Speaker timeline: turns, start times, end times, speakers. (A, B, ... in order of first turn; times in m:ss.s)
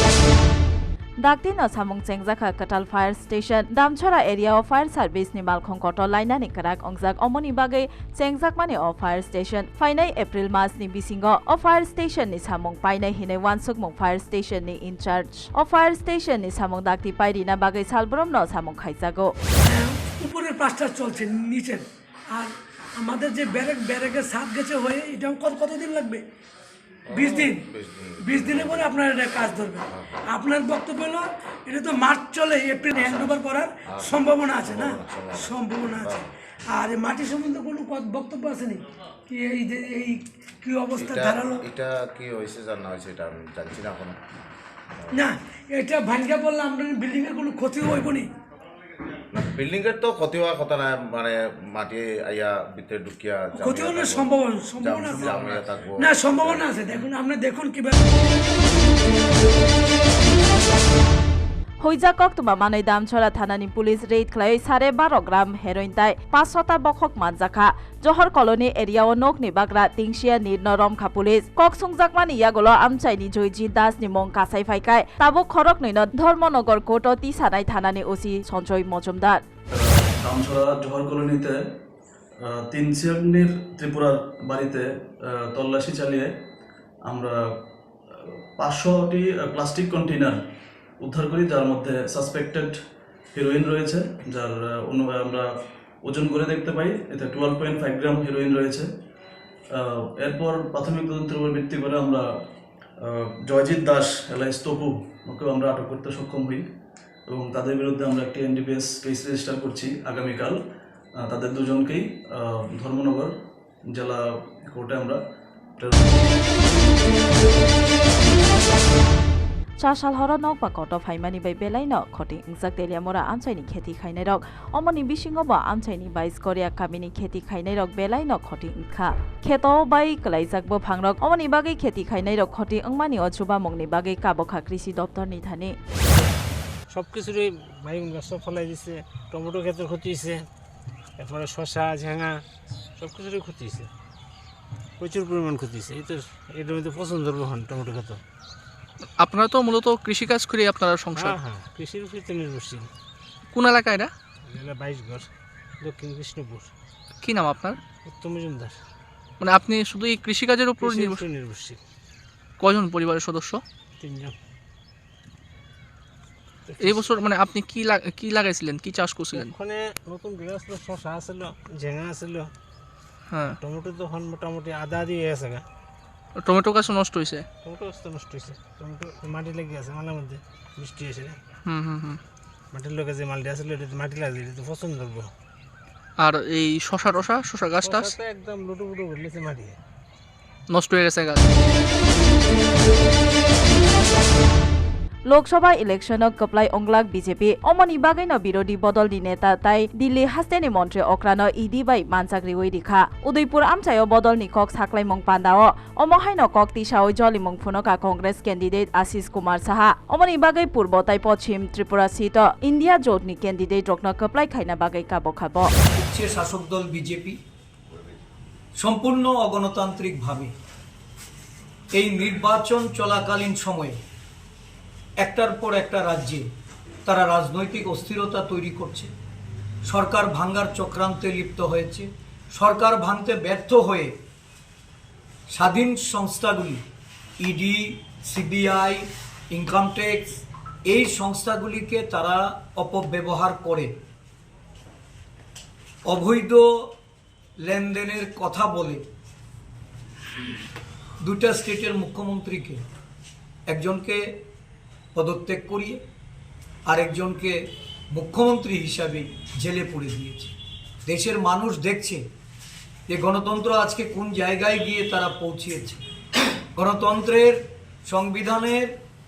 0:01.2-0:19.4 A
0:19.7-0:26.2 B
0:27.1-0:29.0 C
0:27.1-0:41.7 B
0:29.9-0:30.2 C
0:32.9-0:36.2 C
0:41.0-0:44.2 C
0:45.1-0:48.3 B
0:49.3-0:57.1 C
0:53.6-0:55.4 B
0:56.0-0:58.0 B
1:01.8-1:19.4 A
1:19.8-1:21.5 D
1:22.7-1:24.8 D
1:25.6-1:26.3 D
1:28.6-1:30.3 D
1:31.1-1:32.7 D
1:33.4-1:35.4 D
1:36.1-1:38.8 D
1:40.2-1:42.2 D
1:43.5-1:46.6 D
1:47.3-1:50.6 D
1:51.3-1:52.0 D
1:52.8-1:53.3 D
1:54.7-1:55.2 D
1:55.8-1:56.1 D
1:59.8-2:15.8 A
2:16.9-2:20.4 E
2:21.2-2:22.4 E
2:23.0-2:23.9 E
2:25.0-2:28.2 E
2:29.2-2:31.4 F
2:31.1-2:32.9 E
2:33.5-2:34.1 F
2:34.5-2:35.3 E
2:35.8-2:36.7 E
2:37.2-2:37.8 F
2:38.1-2:38.8 E
2:39.4-2:41.2 F
2:40.8-2:41.8 E
2:42.6-2:43.6 F
2:44.0-2:44.4 E
2:46.7-2:47.1 E
2:46.8-2:49.5 F
2:49.3-2:52.5 E
2:53.3-2:53.6 F
2:53.6-2:55.6 E
2:56.4-2:57.4 F
2:57.6-3:01.4 E
3:01.6-3:02.2 F
3:02.7-3:05.3 E
3:06.2-3:08.2 F
3:07.8-3:09.8 E
3:10.7-3:11.4 F
3:15.3-3:35.7 A
3:35.9-3:37.4 G
3:38.8-3:40.5 G
3:41.9-3:44.0 G
3:45.2-3:46.5 G
3:47.1-3:49.1 G
3:49.8-3:54.2 G
3:55.5-3:56.8 G
3:57.4-4:03.9 G
4:06.1-4:07.0 G
4:07.6-4:09.0 G
4:11.2-4:12.8 G
4:13.7-4:14.4 G
4:15.2-4:16.0 G
4:16.9-4:17.6 G
4:18.1-4:20.5 G
4:21.1-4:22.3 G
4:23.1-4:26.0 G
4:26.8-4:29.0 G